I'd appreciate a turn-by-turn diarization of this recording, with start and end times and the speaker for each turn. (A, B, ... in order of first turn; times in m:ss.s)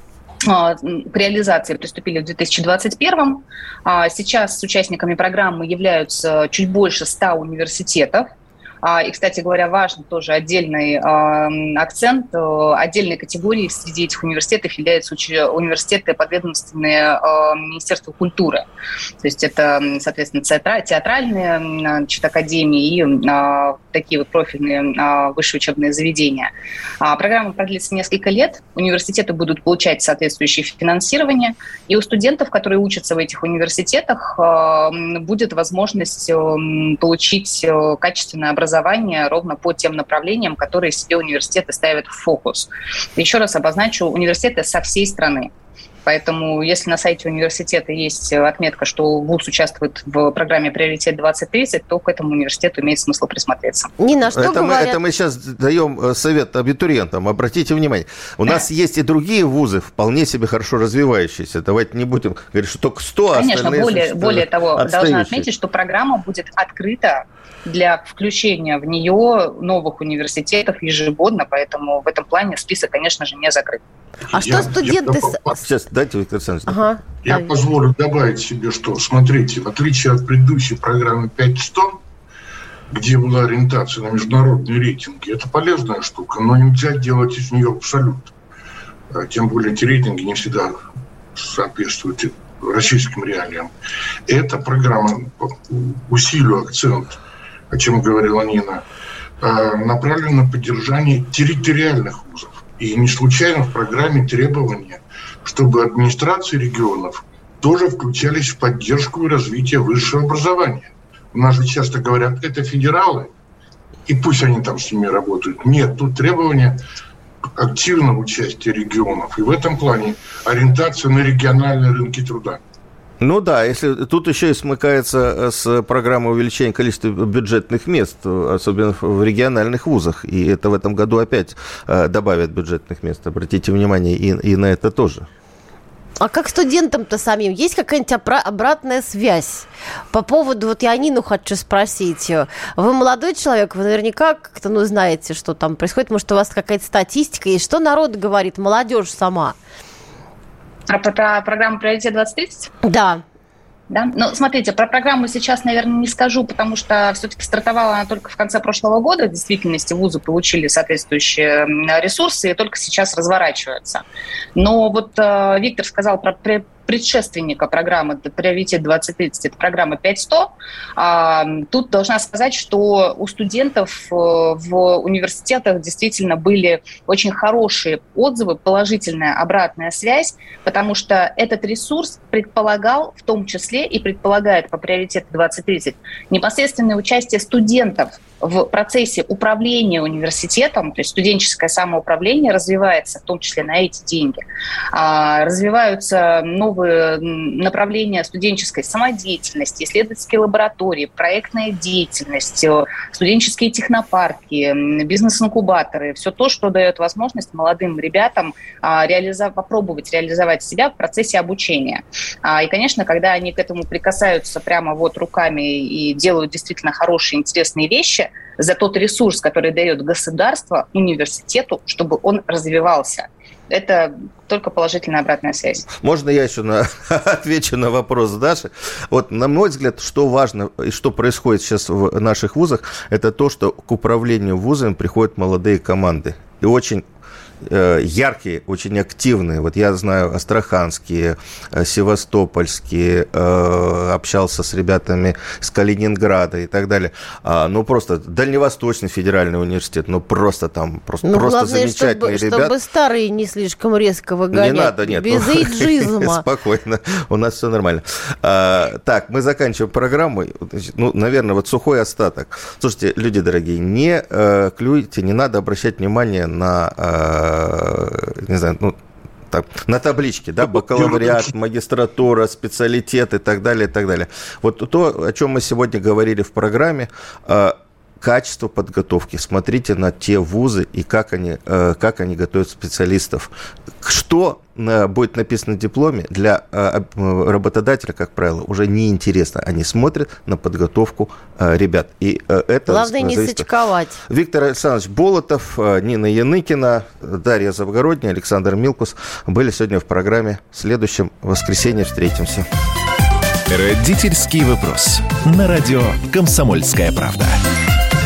0:00.4-0:08.3 A
0:08.8-0:18.6 A
0:19.2-0:26.5 A
0:27.0-0:45.5 A
0:46.0-0:53.9 A
0:54.0-0:55.0 B
0:54.3-1:05.5 C
1:03.3-1:13.8 A
1:14.3-1:15.6 B
1:14.3-1:15.6 D
1:15.6-1:16.9 C
1:16.7-1:17.5 B
1:17.2-1:22.0 D
1:22.9-1:28.3 D
1:29.1-1:30.8 D
1:31.3-1:33.7 D
1:34.3-1:37.2 D
1:37.7-1:38.8 D
1:39.4-1:53.3 D
1:54.1-1:56.8 D
1:57.6-2:02.6 D
2:03.2-2:15.3 C
2:16.2-2:29.6 B
2:30.9-2:32.7 A
2:32.8-2:33.2 B
2:33.9-2:44.0 A
2:44.5-3:14.4 A
3:14.9-3:45.8 A
3:45.9-3:57.0 C
3:57.6-4:12.7 C
4:11.2-4:16.4 B
4:14.5-4:29.0 C
4:29.5-4:53.6 C
4:30.9-4:31.5 D
4:52.9-4:54.2 B
4:54.3-5:02.6 C
5:03.7-5:07.6 E